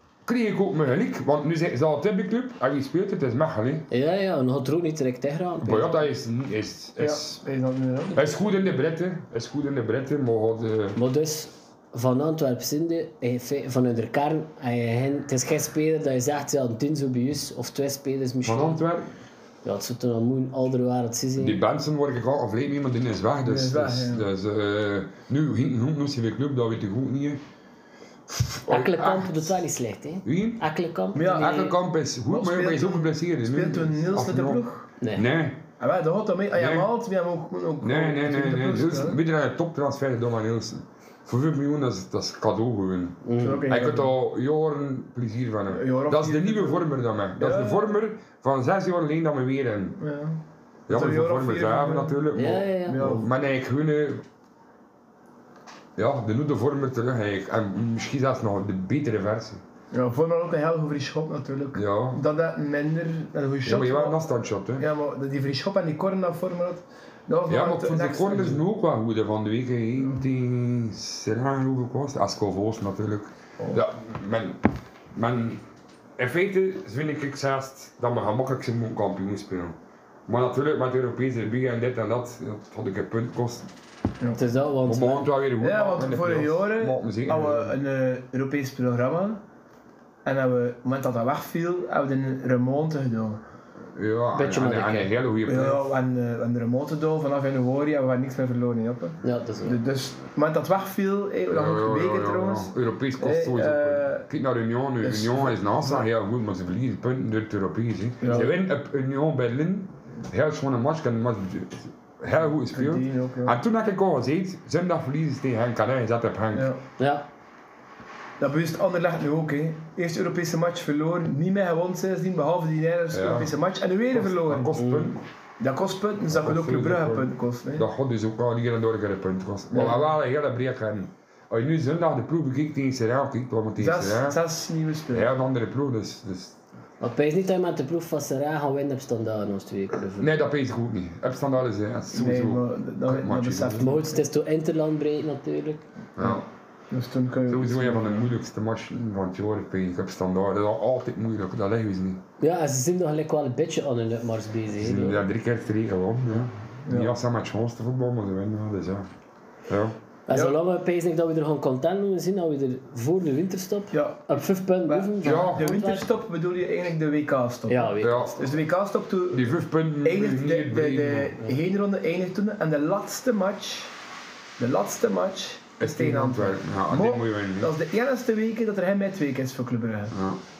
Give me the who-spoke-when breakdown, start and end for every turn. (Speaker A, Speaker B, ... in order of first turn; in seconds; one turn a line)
Speaker A: 0.2-3.9
Speaker B: 3.9-6.0
Speaker A: 5.6-7.4
Speaker C: 7.0-8.2
Speaker A: 8.1-11.0
Speaker B: 10.9-18.8
Speaker A: 18.4-19.1
Speaker B: 19.6-21.6
Speaker A: 21.4-27.4
Speaker C: 23.4-24.2
Speaker A: 28.3-29.6
Speaker B: 28.7-31.7
Speaker A: 30.2-30.6
Speaker C: 31.1-31.7
Speaker A: 31.2-35.6
Speaker C: 32.3-34.9
Speaker B: 35.0-35.2
Speaker C: 35.8-39.2
Speaker A: 36.5-36.9
Speaker A: 37.8-50.0
Speaker B: 43.2-43.7
Speaker C: 43.4-44.1
Speaker C: 45.7-48.0
Speaker C: 50.0-52.2
Speaker A: 50.9-54.2
Speaker B: 52.3-53.0
Speaker C: 52.9-53.3
Speaker A: 56.0-59.6
Speaker C: 59.9-64.2
Speaker A: 61.7-62.2
Speaker A: 63.6-64.9
Speaker C: 64.8-68.6
Speaker A: 67.5-74.6
Speaker A: 75.1-75.6
Speaker A: 76.2-79.8
Speaker A: 80.3-83.7
Speaker B: 84.3-85.3
Speaker A: 84.8-87.7
Speaker C: 85.6-89.4
Speaker C: 90.2-93.4
Speaker A: 93.9-95.8
Speaker B: 94.3-95.1
Speaker C: 95.5-104.3
Speaker B: 99.2-99.8
Speaker A: 101.5-116.7
Speaker C: 105.0-106.0
Speaker C: 108.2-108.5
Speaker C: 112.7-113.6
Speaker C: 116.5-116.8
Speaker B: 117.0-117.2
Speaker C: 118.4-124.7
Speaker A: 123.1-123.5
Speaker A: 124.1-125.2
Speaker B: 124.8-125.2
Speaker C: 125.6-127.9
Speaker A: 126.3-134.4
Speaker C: 133.8-135.3
Speaker A: 135.1-136.6
Speaker B: 137.0-140.3
Speaker A: 140.2-143.9
Speaker C: 142.1-144.2
Speaker B: 143.8-145.8
Speaker A: 146.2-146.4
Speaker C: 146.2-148.3
Speaker A: 147.5-152.2
Speaker B: 152.4-155.2
Speaker A: 154.7-159.1
Speaker C: 156.9-157.1
Speaker A: 159.7-159.9
Speaker B: 160.3-166.1
Speaker C: 160.3-160.6
Speaker C: 163.9-164.3
Speaker C: 164.8-169.5
Speaker A: 165.2-165.8
Speaker B: 167.7-168.4
Speaker A: 168.0-168.4
Speaker A: 169.3-171.4
Speaker C: 170.0-173.9
Speaker C: 174.6-180.1
Speaker A: 175.8-177.7
Speaker A: 180.1-180.4